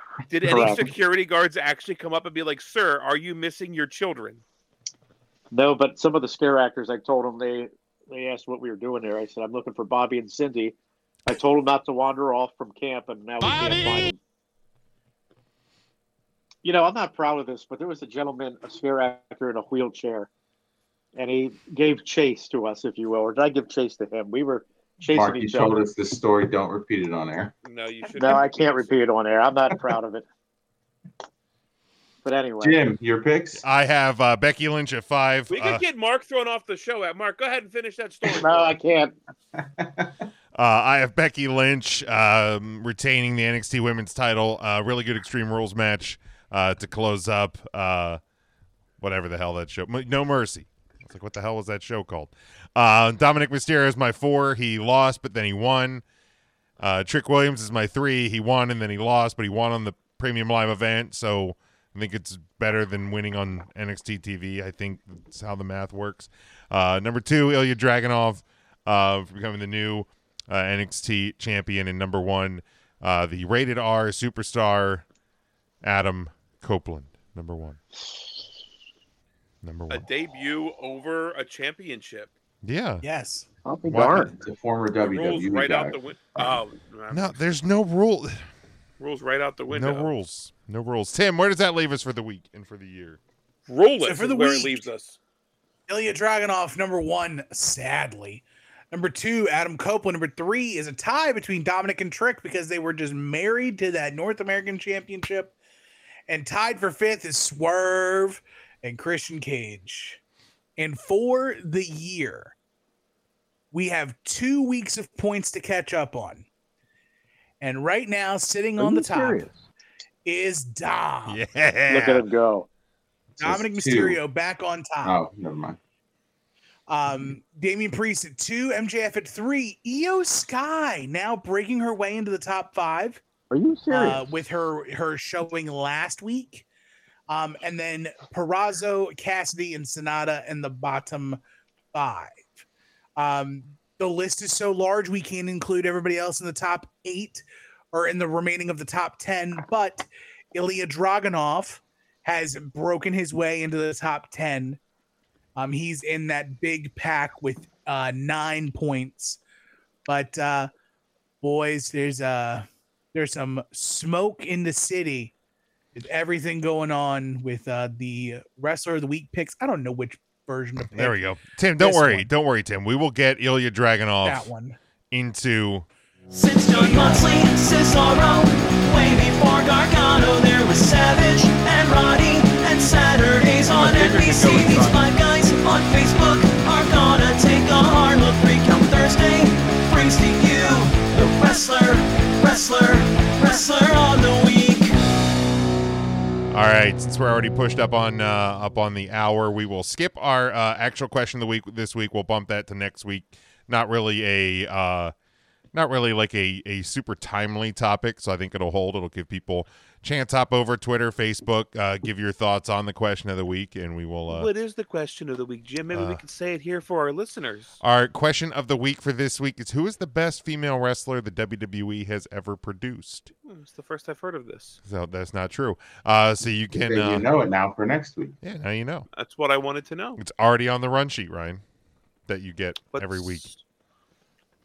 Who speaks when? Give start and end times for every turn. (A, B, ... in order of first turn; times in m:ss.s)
0:00.3-0:04.4 A
0:00.4-0:00.9 B
0:05.5-0:10.8 B
0:11.3-0:14.2 B
0:16.6-0:20.3 B
0:21.1-0:25.8 B
0:25.1-0:27.5 C
0:27.6-0:29.0 A
0:28.2-0:30.2 B
0:32.2-0:32.8 B
0:32.6-0:33.6 C
0:33.6-0:35.8 D
0:35.5-0:38.8 A
0:38.3-0:39.1 B
0:39.6-0:40.1 C
0:40.5-0:48.2 D
0:49.0-0:56.0 D
0:56.8-1:15.0 D
1:15.8-1:17.8 D
1:19.6-1:20.1 D
1:19.9-1:22.3 A
1:22.6-1:23.0 D
1:23.0-1:23.5 E
1:23.6-1:24.3 B
1:23.9-1:24.3 D
1:24.3-1:26.0 C
1:25.0-1:27.4 A
1:27.1-1:28.4 D
1:29.0-1:30.1 A
1:29.7-1:33.2 D
1:33.7-1:35.2 A
1:34.0-1:34.8 E
1:35.9-1:45.5 E
1:46.3-1:50.2 E
1:50.8-1:52.5 E
1:53.7-1:56.4 E
1:57.6-1:59.5 E
1:58.8-1:59.5 B
2:00.2-2:01.4 E
2:01.3-2:02.3 D
2:01.9-2:02.7 B
2:03.4-2:04.2 C
2:03.4-2:05.2 E
2:05.0-2:05.8 C
2:06.9-2:13.2 E
2:13.5-2:14.3 B
2:13.9-2:16.6 E
2:17.3-2:21.4 E
2:21.9-2:22.5 E
2:23.2-2:34.8 E
2:35.6-2:39.4 E
2:40.1-2:40.7 E
2:41.4-2:45.3 E
2:45.9-2:51.2 E
2:50.8-2:54.5 D
2:51.8-2:52.3 E
2:54.2-2:54.8 E
2:55.1-2:55.8 D
2:56.3-3:14.9 F
2:56.7-2:57.2 E
3:03.7-3:05.0 A
3:16.5-3:25.1 D
3:25.7-3:34.5 D
3:34.3-3:37.8 A
3:35.9-3:36.2 D
3:37.8-3:43.3 D
3:43.4-3:44.8 A
3:44.8-3:47.3 D
3:46.7-3:48.4 C
3:48.4-3:49.1 D
3:49.1-3:50.2 A
3:50.2-3:51.6 D
3:52.3-3:53.5 D
3:52.9-3:53.6 A